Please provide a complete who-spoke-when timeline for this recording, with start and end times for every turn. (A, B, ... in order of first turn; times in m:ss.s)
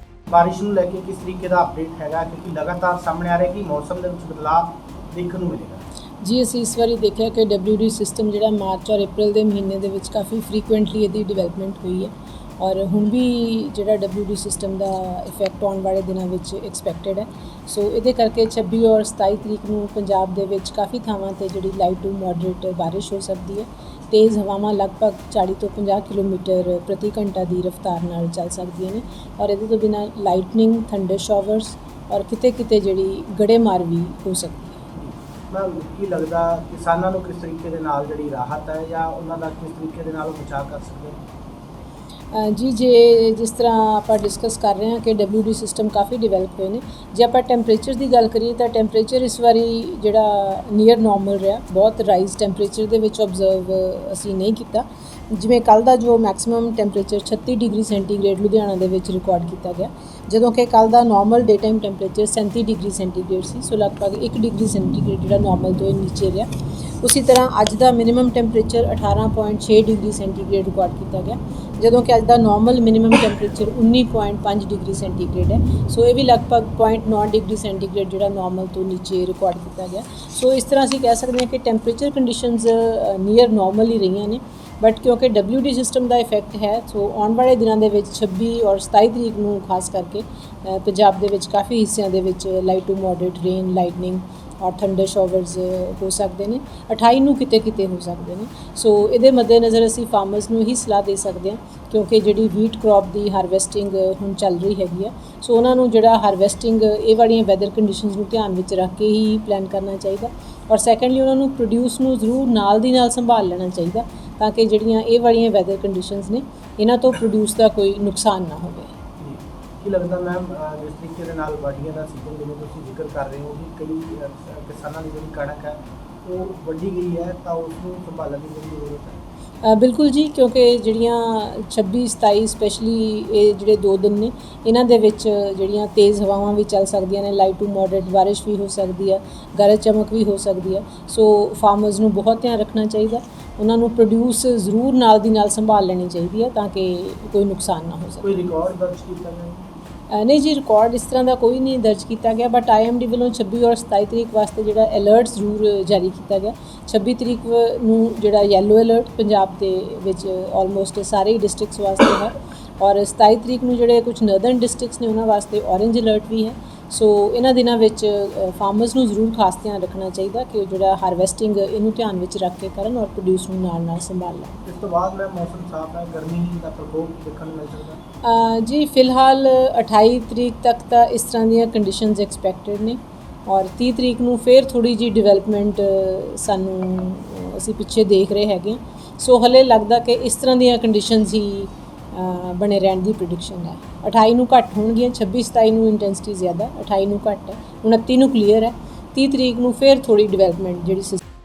0:00.3-0:05.8 A
0:06.2-0:34.8 B
0:34.9-0:41.2 A
0:42.3-1:06.5 B
1:07.0-1:58.9 B
1:59.2-2:09.2 A
2:09.6-2:28.4 B
2:28.2-2:29.7 A
2:30.1-2:54.6 B
2:54.7-2:58.0 A
2:58.2-3:21.2 B